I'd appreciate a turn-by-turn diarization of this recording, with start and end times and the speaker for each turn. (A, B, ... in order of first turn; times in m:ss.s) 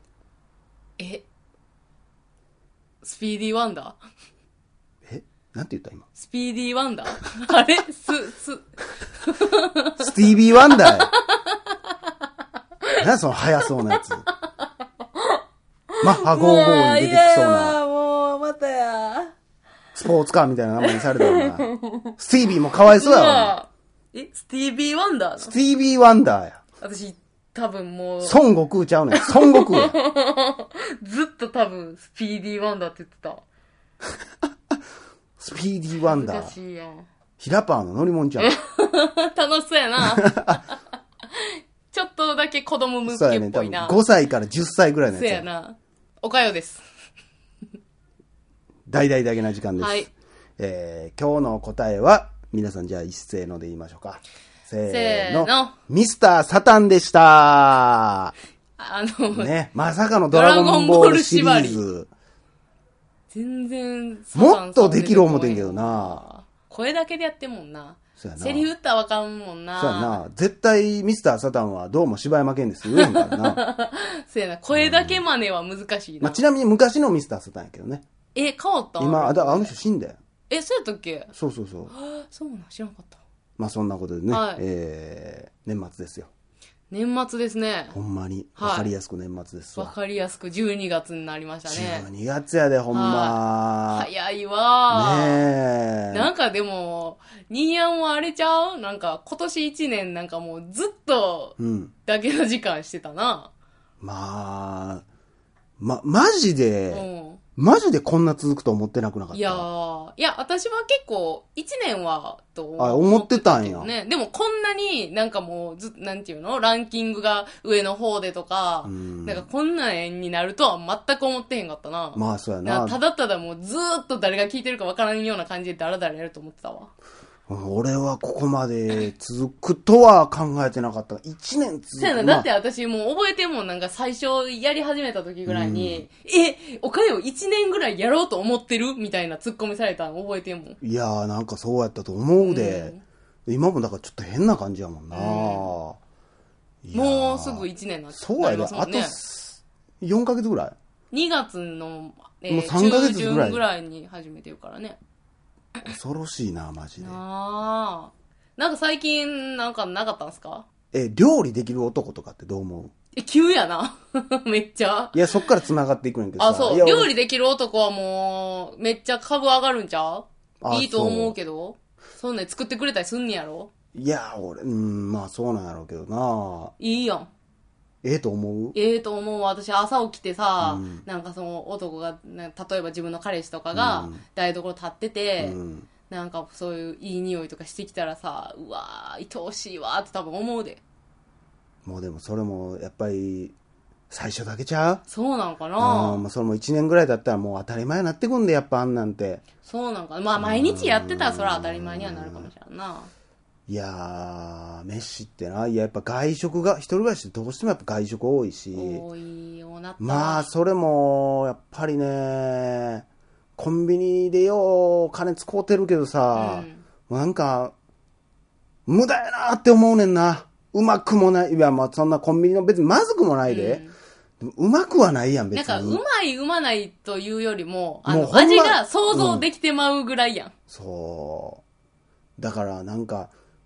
0:01.0-0:01.2 A
0:03.0-0:04.0 A
0:05.1-0:06.1 B
0:06.2-0:08.7 A
0:09.2-0:12.0 A
0:10.0-0:11.1 B
0:13.0-0:14.3 B
0:16.0-0:19.3 A
0:16.0-0:17.8 B
0:19.9-0:23.6 B
0:20.8-0:22.1 A
0:22.8-0:25.5 A
0:25.4-0:26.6 B
0:26.8-0:28.4 A
0:28.2-0:30.0 B
0:29.1-0:33.4 A
0:35.4-0:36.5 B
0:36.1-0:37.1 A
0:37.4-0:38.6 B
0:38.4-0:40.7 A
0:40.0-0:40.6 B
0:41.3-0:44.0 A
0:43.1-0:45.5 B
0:45.1-0:46.8 A
0:48.9-0:50.1 B
0:49.8-0:50.1 A
0:50.6-0:58.3 B
0:54.9-0:55.8 A
0:58.8-0:59.5 A
0:59.3-1:02.1 B
1:00.3-1:01.8 A
1:03.3-1:10.2 A
1:04.4-1:06.2 B
1:08.2-1:08.7 B
1:09.8-1:13.6 B
1:12.9-1:16.4 A
1:14.7-1:15.2 B
1:16.2-1:18.0 B
1:18.3-1:19.7 A
1:19.0-1:20.2 B
1:20.5-1:21.3 A
1:21.3-1:21.9 B
1:21.9-1:23.2 A
1:23.6-1:26.3 B
1:24.3-1:24.6 A
1:26.9-1:28.0 A
1:27.9-1:29.9 B
1:28.6-1:28.9 A
1:29.8-1:32.1 A
1:31.7-1:34.1 B
1:32.9-1:35.5 A
1:34.9-1:36.3 B
1:36.1-1:43.5 A
1:41.6-1:41.9 B
1:44.0-1:45.0 B
1:45.8-1:47.1 B
1:46.9-1:47.4 A
1:47.6-1:49.6 B
1:49.3-2:06.9 A
1:52.8-1:53.9 B
1:58.8-1:59.5 B
2:02.2-2:03.0 B
2:07.5-2:12.5 B
2:12.0-2:20.8 A
2:15.5-2:16.0 B
2:20.8-2:22.9 B
2:22.4-2:23.0 A
2:23.5-2:26.0 B
2:25.1-2:25.8 A
2:26.8-2:30.8 B
2:26.9-2:29.2 A
2:31.1-2:35.0 A
2:32.5-2:33.6 B
2:35.9-2:37.2 B
2:37.0-2:40.7 A
2:40.9-2:42.9 B
2:43.2-2:45.5 A
2:45.1-2:47.1 B
2:46.4-2:53.7 A
2:50.6-2:51.4 B
2:53.9-2:56.7 B
2:56.8-2:57.3 A
2:58.0-2:58.8 B
2:58.7-3:10.8 A
3:00.6-3:01.0 B
3:03.7-3:04.2 B
3:05.4-3:05.9 B
3:11.8-3:13.5 B
3:14.1-3:15.0 B
3:15.1-3:16.2 A
3:15.8-3:19.4 B
3:19.6-3:23.1 A
3:20.4-3:22.5 B
3:23.7-3:29.0 B
3:28.7-3:30.5 A
3:30.0-3:37.7 B
3:36.3-3:36.8 A
3:38.9-3:43.8 B
3:43.5-3:43.9 A
3:44.4-3:46.0 B
3:45.5-3:50.5 A
3:48.1-3:49.4 B
3:50.7-3:51.6 B
3:52.4-3:53.3 B